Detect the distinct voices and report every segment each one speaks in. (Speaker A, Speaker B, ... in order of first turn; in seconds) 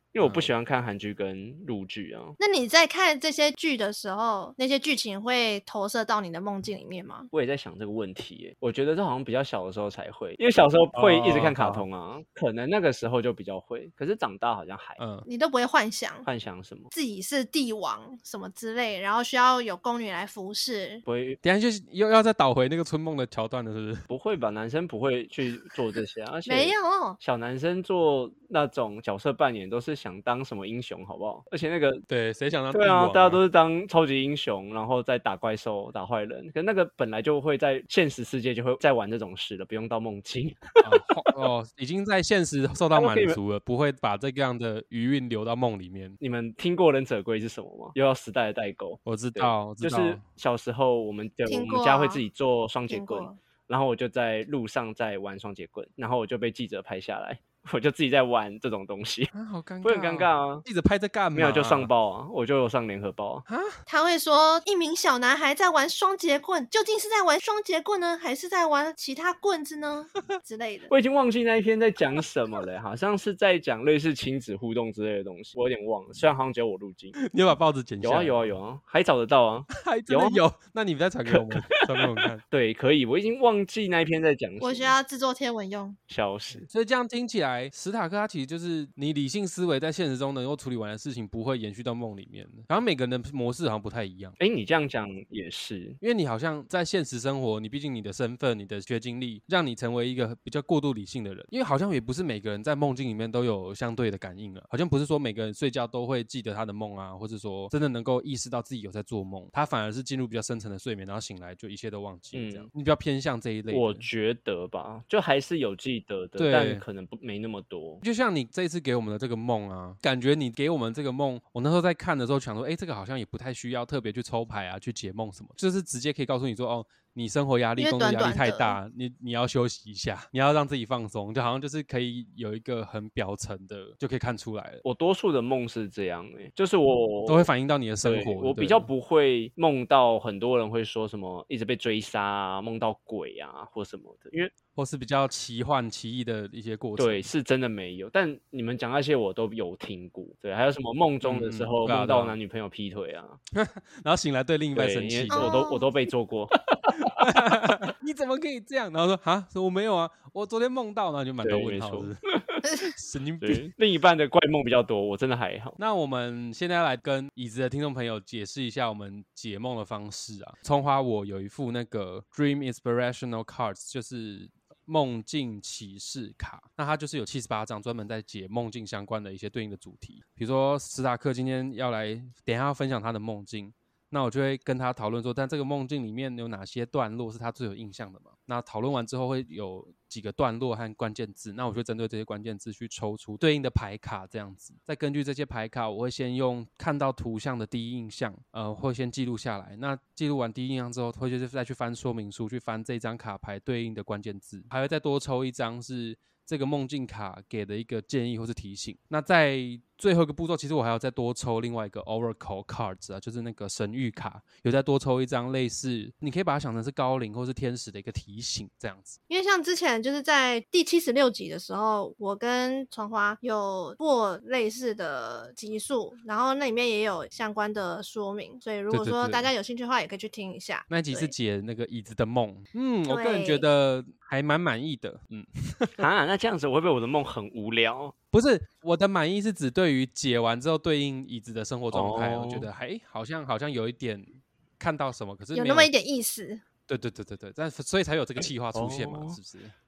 Speaker A: 0.1-2.4, 7.3-15.0, 16.2-16.9, 21.1-21.4, 24.1-32.0, 32.7-41.0, 42.9-43.4, 46.2-59.3, 59.8-60.6, 61.3-63.5, 70.9-77.2, 78.0-80.4, 81.3-85.0, 86.1-86.7, 94.4-96.0, 112.3-112.7, 113.7-118.0, 134.8-137.5, 138.0-144.5, 147.0-153.4, 154.7-157.3, 161.4-162.6, 163.4-165.8, 236.0-238.1, 241.9-242.7, 248.7-249.4
Speaker B: 0.2-0.5, 10.9-11.8, 15.0-15.2, 21.4-24.0, 32.1-33.4, 40.8-46.2, 49.0-50.2, 59.3-61.9, 63.5-63.8, 77.2-78.5, 79.7-82.4, 86.7-94.3, 96.0-114.1, 116.4-116.8, 118.0-134.8, 137.3-138.9, 144.8-147.2, 151.2-152.3, 153.5-155.6, 157.2-162.2, 162.8-163.7, 165.8-219.2, 228.9-229.5, 230.9-236.1, 238.3-245.9, 246.9-249.7
Speaker C: 2.4-7.3, 15.2-16.3, 16.9-21.0, 26.4-27.2, 51.5-52.2, 52.9-53.4, 63.9-70.9, 84.6-86.0, 127.8-128.8, 155.3-155.9, 219.3-231.3, 233.1-233.7, 245.5-246.6